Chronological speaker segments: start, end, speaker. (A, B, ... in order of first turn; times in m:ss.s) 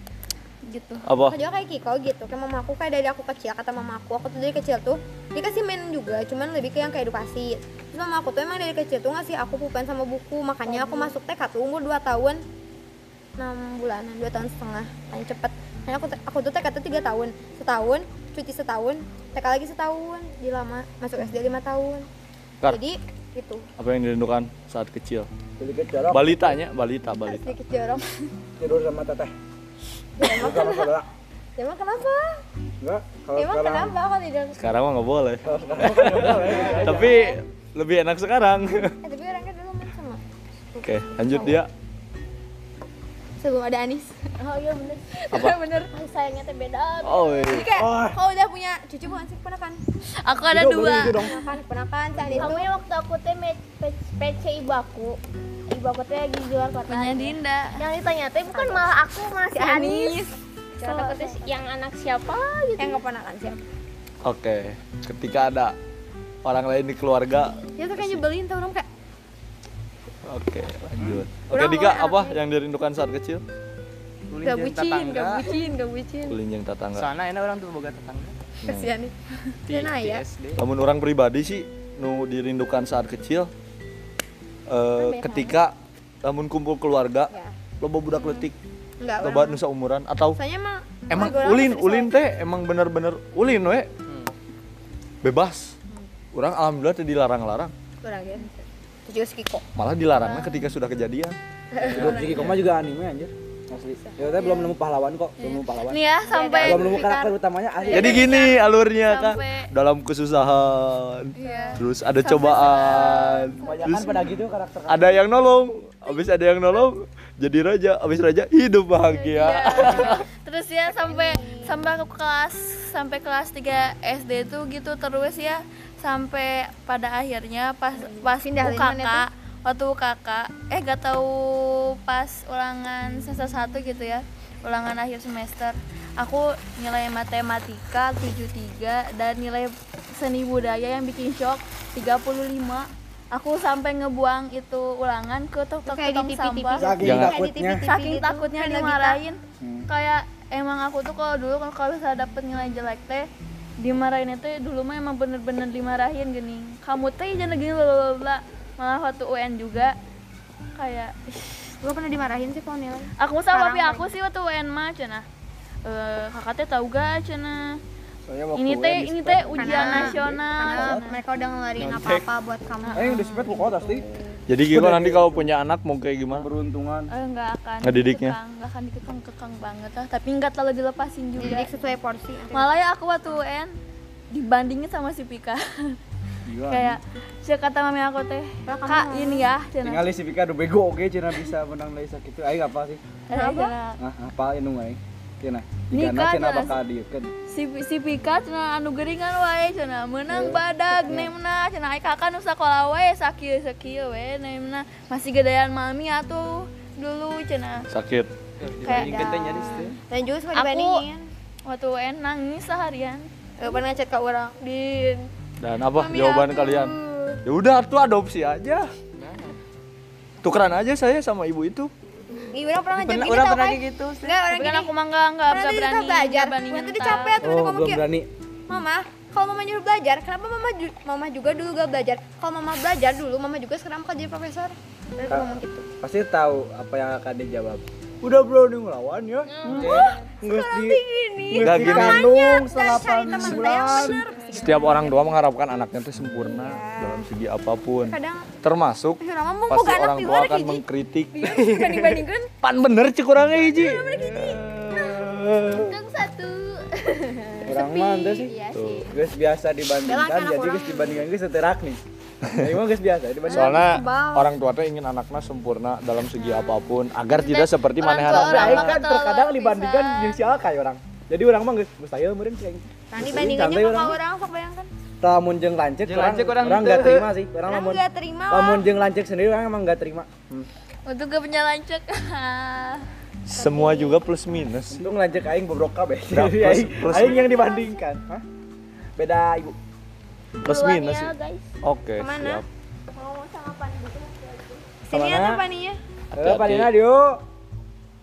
0:00.6-0:01.0 A
0:01.0-0:01.4 B
0:01.3-0:12.4 C
0:10.7-0:11.0 A
0:13.4-0:22.1 C
0:22.6-0:23.6 C
0:23.8-0:25.3 B
0:25.6-0:26.5 D
0:26.1-0:27.6 B
0:27.2-0:28.0 C
0:28.6-0:29.3 D
0:30.2-0:30.9 C
0:30.2-0:31.1 D
0:31.6-0:32.4 C
0:32.8-0:34.0 D
0:33.4-0:34.6 C
0:34.5-0:39.0 B
0:35.4-0:37.2 D
0:36.4-0:37.4 C
0:39.0-0:40.2 C
0:40.7-0:41.6 C
0:40.8-0:41.7 B
0:43.4-0:44.3 C
0:44.4-0:47.7 E
0:45.3-0:45.6 B
0:47.0-0:47.7 B
0:47.5-0:49.8 C
0:47.7-0:48.2 D
0:50.2-0:51.3 A
0:50.5-0:51.3 D
0:51.2-0:52.7 C
0:52.2-0:52.6 D
0:52.4-0:55.2 E
0:55.7-1:00.2 E
0:56.9-0:57.8 A
0:58.5-0:58.9 C
0:59.5-1:01.5 C
1:00.8-1:03.0 E
1:02.8-1:03.6 C
1:04.2-1:05.7 B
1:06.4-1:08.2 B
1:07.8-1:08.9 C
1:10.2-1:13.4 B
1:11.5-1:12.4 C
1:14.3-1:15.5 F
1:14.4-1:16.4 C
1:16.3-1:17.1 B
1:16.9-1:18.4 F
1:18.6-1:18.9 B
1:18.6-1:19.1 C
1:19.6-1:20.6 F
1:19.7-1:20.2 C
1:20.6-1:23.5 B
1:24.7-1:28.6 B
1:25.0-1:25.6 C
1:27.3-1:27.6 C
1:28.1-1:28.4 C
1:29.0-1:29.6 C
1:29.2-1:30.4 B
1:30.3-1:32.1 C
1:31.1-1:33.9 B
1:35.2-1:35.7 B
1:36.3-1:37.7 B
1:38.0-1:39.6 C
1:39.8-1:41.4 B
1:40.2-1:40.6 C
1:41.7-1:42.4 C
1:41.9-1:46.0 D
1:42.1-1:42.3 B
1:44.0-1:44.7 C
1:45.4-1:47.1 A
1:46.2-1:48.4 C
1:46.6-1:48.4 D
1:47.9-1:49.7 A
1:47.9-1:54.2 B
1:51.3-1:53.7 A
1:51.4-1:51.8 C
1:53.1-1:54.0 C
1:53.6-1:55.2 D
1:54.9-2:00.2 B
1:59.2-2:27.0 A
1:59.7-2:00.2 C
2:00.8-2:01.8 C
2:08.0-2:09.2 C
2:25.8-2:29.2 C
2:26.8-2:27.8 D
2:27.0-2:27.4 B
2:27.8-2:33.3 A
2:29.6-2:29.9 D
2:33.8-2:40.0 A
2:40.8-2:41.7 A
2:41.8-2:44.1 C
2:43.2-2:45.2 A
2:45.8-2:47.8 A
2:48.3-2:51.1 D
2:48.5-2:51.2 A
2:49.6-2:54.4 C
2:51.8-2:52.2 F
2:52.8-2:53.5 A
2:52.9-2:54.0 D
2:54.5-2:56.5 B
2:54.7-2:55.5 D
2:56.3-2:57.1 D
2:57.1-3:01.7 A
2:57.8-2:58.4 B
3:01.4-3:02.7 C
3:02.5-3:03.7 A
3:04.3-3:06.0 A
3:06.4-3:07.0 D
3:06.7-3:10.0 A
3:08.6-3:09.5 C
3:09.8-3:13.0 D
3:13.3-3:13.8 C
3:13.3-3:14.0 A
3:14.0-3:17.3 D
3:15.9-3:16.8 A
3:17.5-3:27.9 A
3:20.3-3:21.3 D
3:27.9-3:28.3 B
3:28.6-3:30.0 F
3:28.8-3:29.9 A
3:28.8-3:31.3 C
3:30.5-3:31.0 A
3:31.6-3:33.3 A
3:33.6-3:35.3 C
3:35.6-3:38.9 B
3:35.9-3:37.4 C
3:39.2-3:39.6 F
3:40.4-3:41.9 B
3:42.5-3:44.9 C
3:43.0-3:44.4 F
3:44.4-3:47.4 A
3:45.5-3:48.0 C
3:47.4-3:48.3 D
3:48.7-3:55.9 C
3:55.3-4:02.6 D
3:59.5-4:00.1 E
3:59.6-4:00.0 A
3:59.7-4:05.3 C
4:01.6-4:16.0 B
4:03.2-4:04.2 D
4:06.4-4:07.3 C
4:08.0-4:08.5 C
4:09.2-4:12.5 C
4:13.6-4:14.6 C
4:15.8-4:16.2 A
4:16.1-4:17.6 E
4:17.6-4:19.1 A
4:17.6-4:18.5 D
4:18.7-4:19.1 B
4:19.1-4:22.0 D
4:20.0-4:21.3 C
4:22.5-4:23.8 D
4:23.5-4:24.5 C
4:23.5-4:28.9 B
4:27.3-4:30.4 A
4:28.3-4:34.2 D
4:33.1-4:34.9 C
4:35.2-4:40.7 D
4:36.0-4:37.3 F
4:37.7-4:38.9 C
4:41.1-4:43.0 A
4:43.5-4:45.0 B
4:43.5-4:44.3 C
4:44.9-4:48.4 D
4:46.3-4:47.5 B
4:47.1-4:47.9 C
4:49.2-4:49.8 D
4:50.6-4:52.6 B
4:50.6-4:51.7 E
4:52.2-4:52.6 C
4:53.1-4:54.8 E
4:55.0-4:56.0 C
4:55.1-4:55.6 D
4:56.3-4:57.4 D
4:56.4-4:56.9 B